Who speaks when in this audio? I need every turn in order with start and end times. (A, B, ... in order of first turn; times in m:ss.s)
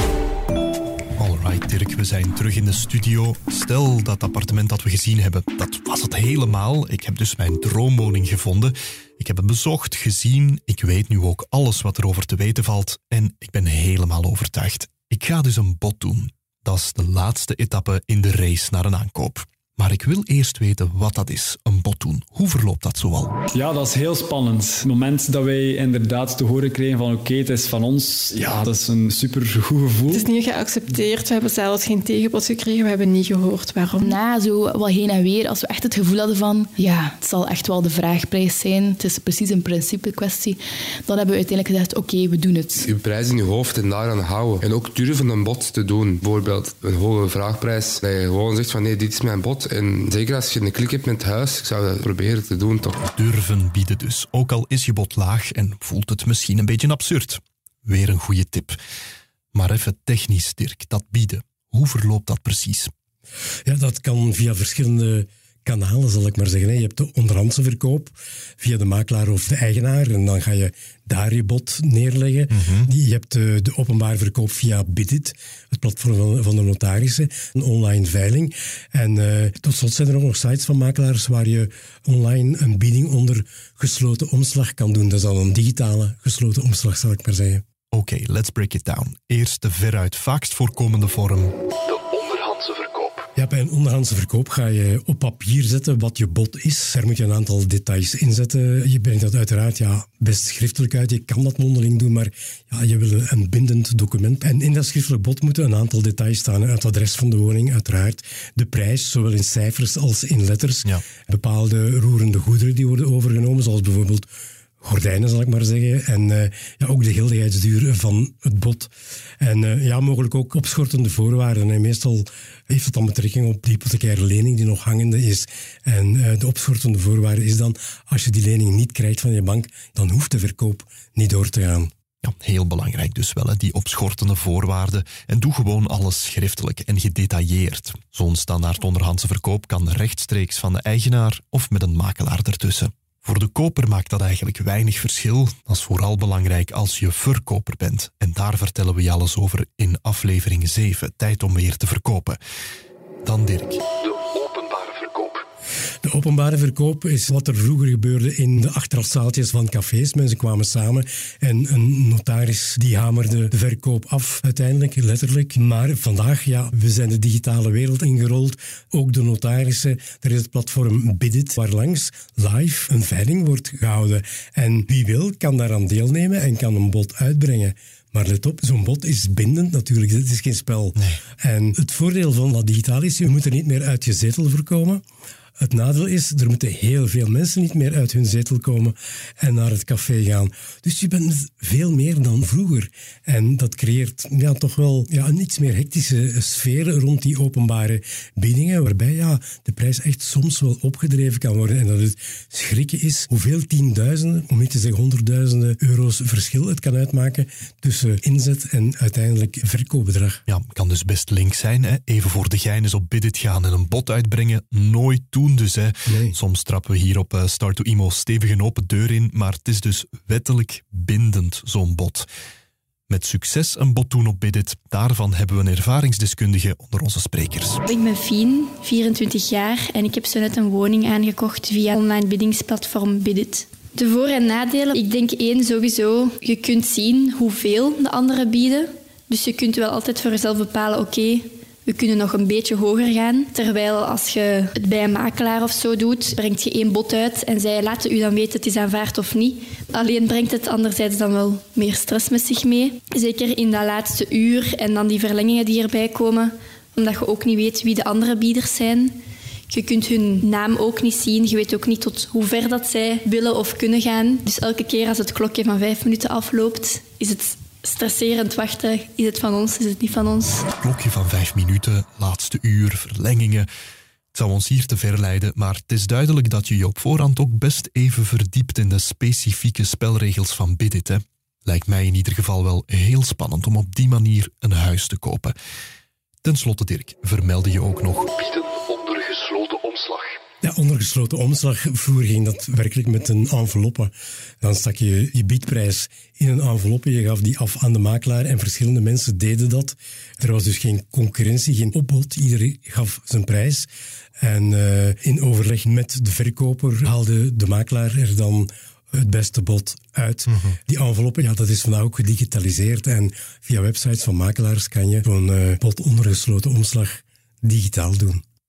0:01.2-0:23.3 A
0:23.5-0:30.3 B
0:30.1-0:34.2 C
0:34.0-0:42.9 D
0:42.8-0:53.0 E
0:53.1-0:58.8 A
0:59.5-1:02.9 A
1:03.7-1:27.6 F
1:12.5-1:12.9 A
1:27.9-1:33.3 A
1:33.4-1:54.3 F
1:54.8-2:11.9 F
2:12.2-2:32.4 A
2:33.2-2:35.4 A
2:36.0-3:05.0 F
3:05.6-3:30.4 F
3:30.5-3:42.3 A
3:36.1-3:36.4 F
3:43.1-3:47.8 A
3:47.8-4:19.2 G
4:19.7-4:30.7 G
4:30.8-4:33.7 A
4:34.3-4:45.5 A
4:46.4-4:50.4 A
4:50.6-5:03.9 F
5:04.4-5:18.4 F
5:10.5-5:10.8 A